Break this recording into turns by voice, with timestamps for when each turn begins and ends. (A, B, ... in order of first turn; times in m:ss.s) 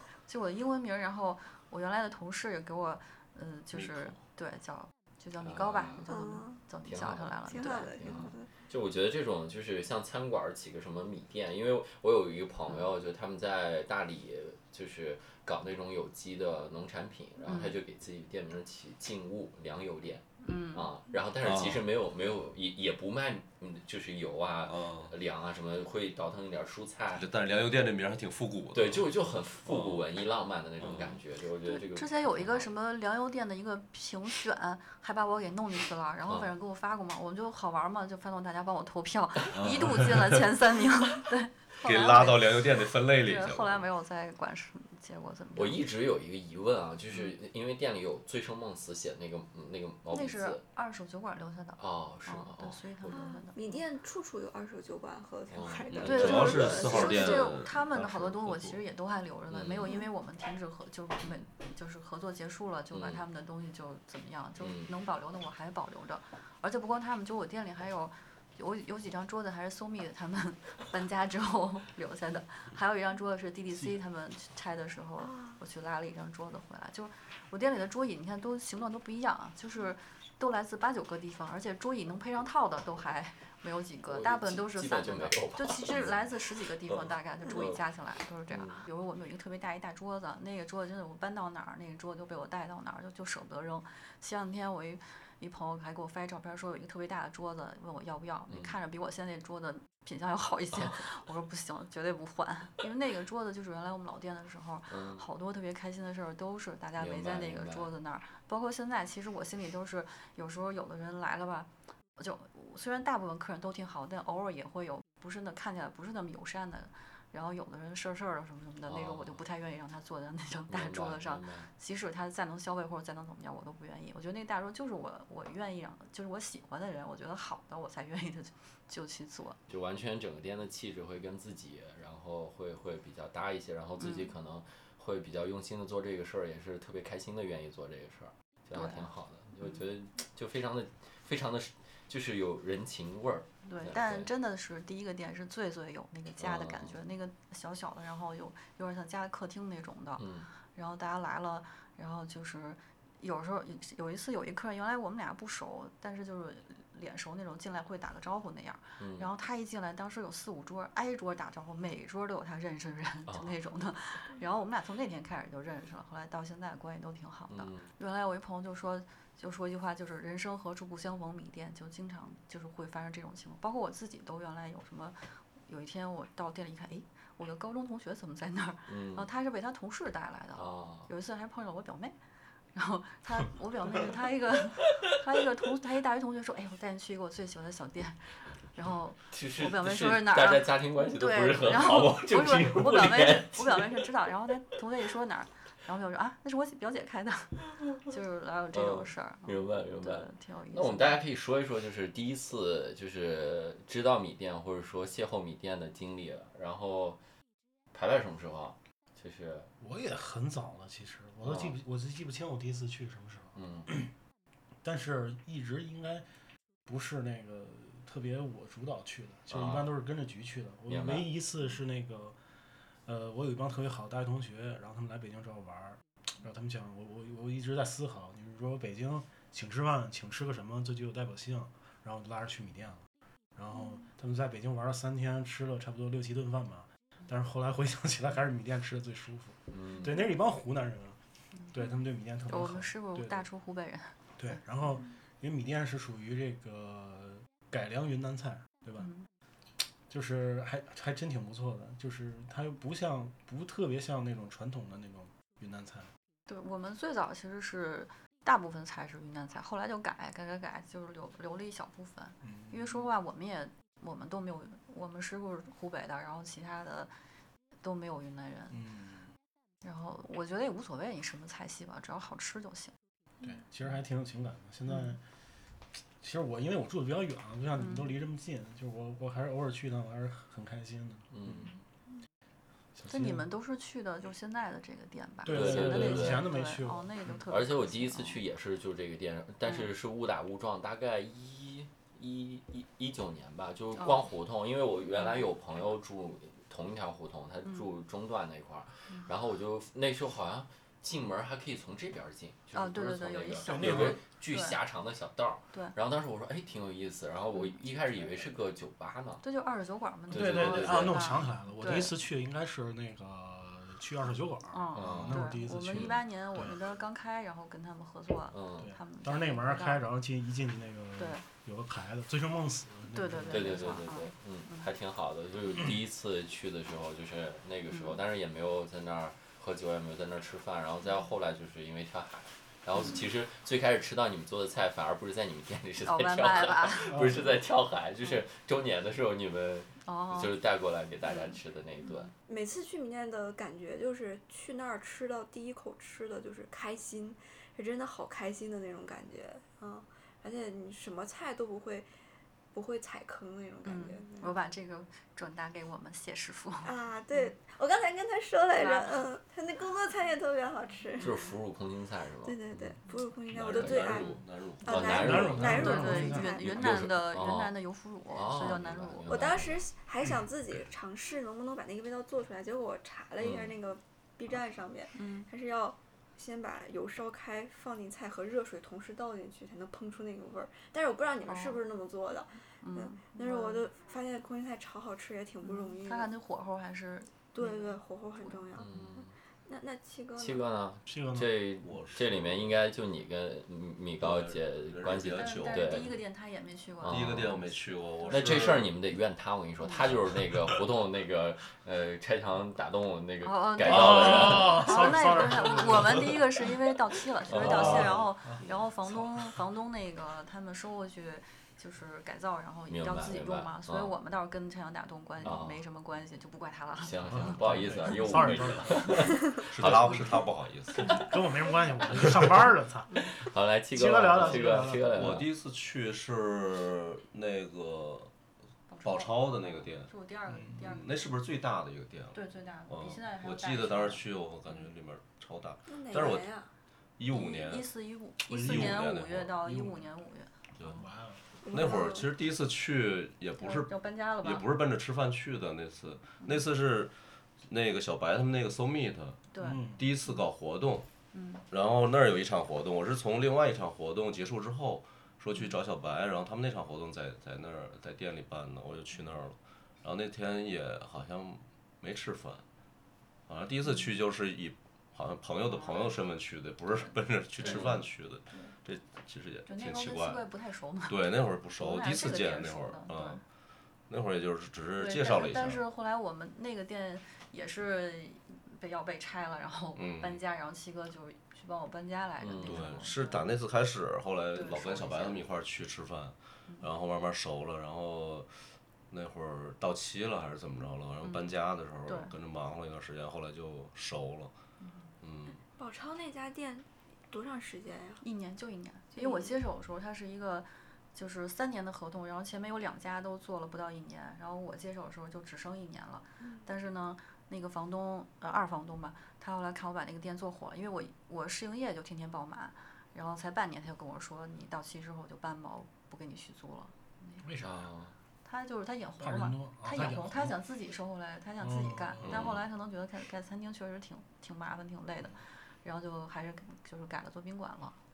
0:00.3-0:08.2 A
0:03.7-0:04.2 B
0:05.4-0:06.0 C
0:06.0-0:06.6 D
0:06.8-0:27.2 C
0:07.5-0:08.5 D
0:17.4-0:17.8 A
0:20.4-0:20.9 A
0:21.4-0:21.8 B
0:24.6-0:25.1 B
0:27.1-0:29.1 B
0:28.7-0:32.7 C
0:29.6-0:30.0 B
0:30.8-0:31.2 B
0:31.6-0:45.9 A
0:39.5-0:40.4 B
0:41.8-0:43.8 B
0:45.5-0:50.6 C
0:50.1-0:53.8 A
0:51.8-0:53.2 C
0:53.1-0:57.6 D
0:55.5-0:57.0 C
0:55.9-0:58.8 B
0:56.0-2:09.6 A
0:59.5-0:59.9 C
1:02.9-1:03.2 C
1:04.6-1:04.9 C
1:15.2-1:15.6 D
1:24.0-1:26.3 C
1:26.9-1:27.8 C
1:28.5-1:28.8 C
1:38.5-1:38.7 C
1:44.9-1:45.2 C
1:47.0-1:47.9 C
1:58.9-1:59.4 C
2:00.7-2:01.7 C
2:09.7-2:24.3 C
2:14.0-2:14.3 A
2:18.7-2:19.1 A
2:23.6-3:02.2 A
2:26.4-2:27.0 C
2:30.2-2:30.5 C
2:39.0-2:39.3 C
2:43.3-2:43.5 C
2:47.5-2:47.9 C
2:58.9-2:59.3 C
3:00.5-3:01.1 C
3:02.7-3:21.2 A
3:09.3-3:14.0 C
3:18.7-3:27.2 C
3:27.9-3:29.7 C
3:29.8-3:34.1 E
3:31.4-3:31.7 C
3:33.5-3:33.9 C
3:34.8-3:36.2 E
3:36.9-3:42.4 E
3:39.5-3:39.9 C
3:40.9-3:41.3 C
3:43.0-3:53.0 E
3:53.6-4:01.2 E
3:59.7-4:00.2 C
4:01.7-4:03.4 E
4:02.5-4:04.6 A
4:04.4-4:09.1 E
4:09.0-4:09.2 A
4:10.1-4:16.1 E
4:16.5-4:27.1 A
4:22.4-4:23.1 E
4:27.8-4:28.8 A
4:28.7-4:29.3 E
4:29.8-4:32.9 A
4:33.4-4:35.2 E
4:34.9-4:35.2 A
4:36.2-4:41.6 E
4:37.7-4:38.2 A
4:41.3-4:41.7 C
4:43.0-4:43.5 E
4:43.1-4:48.4 A
4:45.4-4:47.4 E
4:45.5-4:46.5 C
4:47.5-5:09.4 C
4:54.0-4:54.2 A
5:02.7-5:04.8 A
5:03.6-5:04.2 E
5:09.4-5:12.1 A
5:10.3-5:11.3 C
5:10.3-5:16.8 E
5:14.7-5:20.1 A
5:14.9-5:16.2 C
5:18.5-5:18.9 C
5:18.8-5:24.0 E
5:21.2-5:21.4 A
5:23.1-5:24.9 A
5:23.5-5:42.3 C
5:27.9-5:28.2 A
5:32.9-5:33.2 A
5:36.0-5:37.2 A
5:37.1-5:37.4 E
5:40.0-5:40.5 A
5:41.3-5:41.5 A
5:42.5-5:52.1 D
5:52.7-5:54.5 D
5:53.8-5:57.5 A
5:56.8-6:01.4 D
5:58.8-5:59.2 A
6:01.2-6:02.9 C
6:02.4-6:06.8 D
6:03.5-6:05.4 B
6:03.6-6:04.2 C
6:04.8-6:07.7 C
6:05.1-6:06.5 E
6:05.6-6:09.6 A
6:08.3-6:09.9 C
6:09.3-6:26.3 D
6:13.4-6:13.7 C
6:15.1-6:15.5 A
6:21.4-6:21.8 A
6:22.8-6:23.9 A
6:25.6-6:28.6 A
6:27.5-6:30.6 D
6:28.8-6:29.3 C
6:30.4-6:36.2 C
6:31.1-6:31.6 E
6:31.8-6:32.8 B
6:34.2-6:36.0 B
6:35.3-6:37.2 A
6:37.0-6:37.7 C
6:37.1-6:38.9 B
6:38.2-6:38.5 A
6:38.3-6:45.2 C
6:43.4-6:57.5 A
6:43.8-6:46.4 E
6:47.5-6:48.3 C
6:47.5-6:49.4 E
6:52.9-6:54.1 C
6:55.4-6:55.8 C
6:57.0-7:00.4 C
6:57.2-6:59.3 E
6:59.7-7:01.2 B
7:01.0-7:03.3 E
7:03.2-7:05.5 C
7:03.9-7:05.3 E
7:05.1-7:08.3 B
7:08.9-7:11.2 A
7:09.0-7:10.1 B
7:10.5-7:10.8 E
7:10.7-7:16.5 B
7:12.3-7:14.2 A
7:15.9-7:16.7 D
7:17.2-7:17.9 B
7:17.3-7:21.0 A
7:18.5-7:19.0 E
7:18.6-7:19.6 B
7:19.6-7:20.0 E
7:20.8-7:21.0 B
7:20.8-7:21.4 E
7:21.6-7:22.3 D
7:21.7-7:29.4 B
7:23.6-7:24.6 A
7:29.5-7:29.8 A
7:29.6-7:30.0 E
7:30.0-7:31.1 B
7:31.3-7:31.6 A
7:31.7-7:42.6 B
7:43.5-7:50.4 B
7:45.6-7:46.1 A
7:47.6-7:48.7 A
7:49.6-7:53.4 A
7:51.1-7:53.4 B
7:54.1-7:55.8 B
7:55.0-8:03.4 A
8:00.0-8:00.4 B
8:02.4-8:02.9 C
8:02.6-8:08.6 B
8:04.5-8:05.4 A
8:09.1-8:14.5 B
8:11.2-8:11.5 A
8:12.0-8:12.3 A
8:14.8-8:15.1 A
8:15.2-8:15.6 B
8:15.8-8:18.2 D
8:18.2-8:37.4 A
8:19.2-8:19.5 D
8:26.4-8:26.7 D
8:37.4-8:37.9 E
8:37.6-8:38.1 C
8:38.4-8:48.0 A
8:39.2-8:40.6 E
8:41.6-8:42.5 E
8:42.2-8:42.6 B